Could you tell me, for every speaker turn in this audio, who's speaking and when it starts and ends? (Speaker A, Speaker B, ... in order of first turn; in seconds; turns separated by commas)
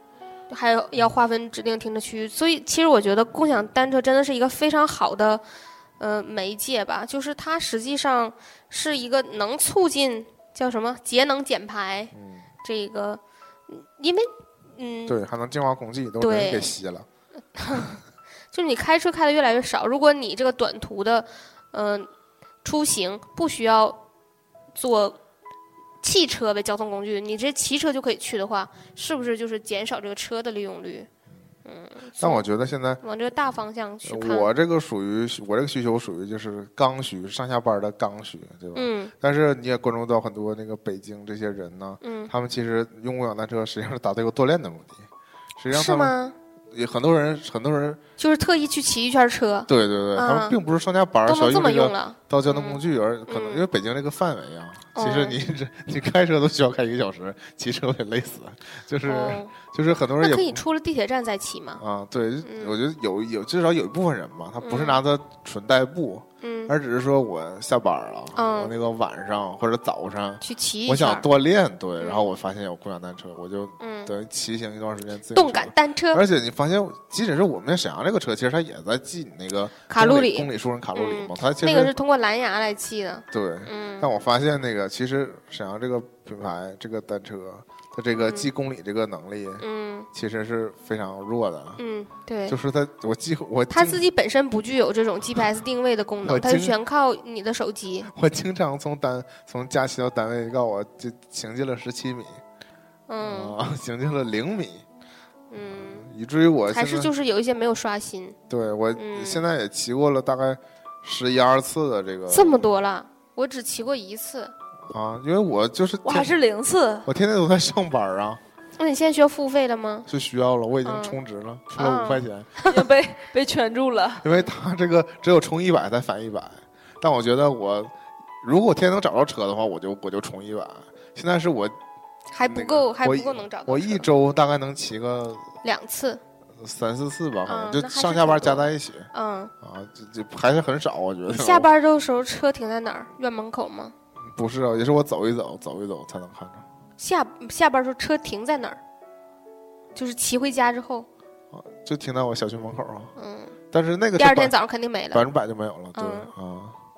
Speaker A: 0.5-5.4, Speaker A: 6.0-12.1, Speaker B: 12.1-12.4, Speaker A: 12.6-15.2, Speaker B: 15.1-17.1, Speaker A: 16.2-16.7, Speaker A: 17.6-18.0, Speaker A: 18.5-22.1, Speaker A: 22.6-24.0, Speaker A: 24.7-25.2, Speaker A: 26.0-31.1, Speaker A: 31.6-32.4, Speaker B: 32.2-33.0, Speaker A: 33.0-34.5, Speaker B: 34.0-45.0, Speaker A: 38.7-39.1, Speaker A: 42.0-42.3, Speaker B: 45.6-46.1, Speaker A: 45.7-46.3, Speaker B: 46.7-48.0, Speaker A: 48.2-50.6, Speaker B: 49.7-60.6, Speaker A: 51.2-53.6, Speaker A: 54.9-55.4, Speaker A: 59.0-59.5, Speaker A: 60.2-61.8, Speaker B: 61.8-81.9, Speaker A: 62.4-62.8, Speaker A: 64.6-65.0, Speaker A: 66.4-66.7, Speaker A: 68.3-68.7, Speaker A: 70.4-71.3, Speaker A: 72.0-72.3, Speaker A: 73.8-74.1, Speaker A: 75.3-76.2, Speaker A: 79.9-84.1, Speaker B: 83.3-91.8, Speaker A: 88.2-88.5, Speaker A: 89.6-90.1, Speaker A: 91.8-92.5, Speaker B: 92.5-94.0, Speaker A: 93.7-98.1, Speaker B: 96.2-96.8, Speaker B: 98.1-102.4, Speaker A: 103.1-103.5, Speaker B: 103.2-104.8, Speaker A: 105.5-106.1, Speaker B: 105.6-107.1, Speaker A: 106.7-108.3, Speaker B: 108.5-112.7, Speaker A: 108.9-109.4, Speaker A: 112.3-114.5, Speaker B: 114.9-116.3, Speaker C: 116.0-117.1, Speaker B: 117.0-118.4, Speaker A: 118.8-120.1, Speaker B: 120.1-122.5, Speaker A: 120.8-121.2, Speaker A: 121.8-122.8, Speaker C: 122.6-124.2, Speaker B: 124.2-131.8, Speaker A: 132.3-134.1, Speaker B: 132.4-135.5, Speaker A: 135.6-136.2, Speaker B: 136.6-139.1, Speaker A: 137.4-139.5, Speaker B: 139.6-141.7, Speaker A: 141.3-143.9, Speaker B: 144.2-146.6, Speaker A: 147.0-148.8, Speaker A: 149.9-151.1, Speaker B: 151.5-153.1, Speaker A: 153.2-153.5, Speaker B: 153.7-154.5, Speaker A: 154.2-155.2, Speaker B: 155.1-156.8, Speaker A: 155.9-156.3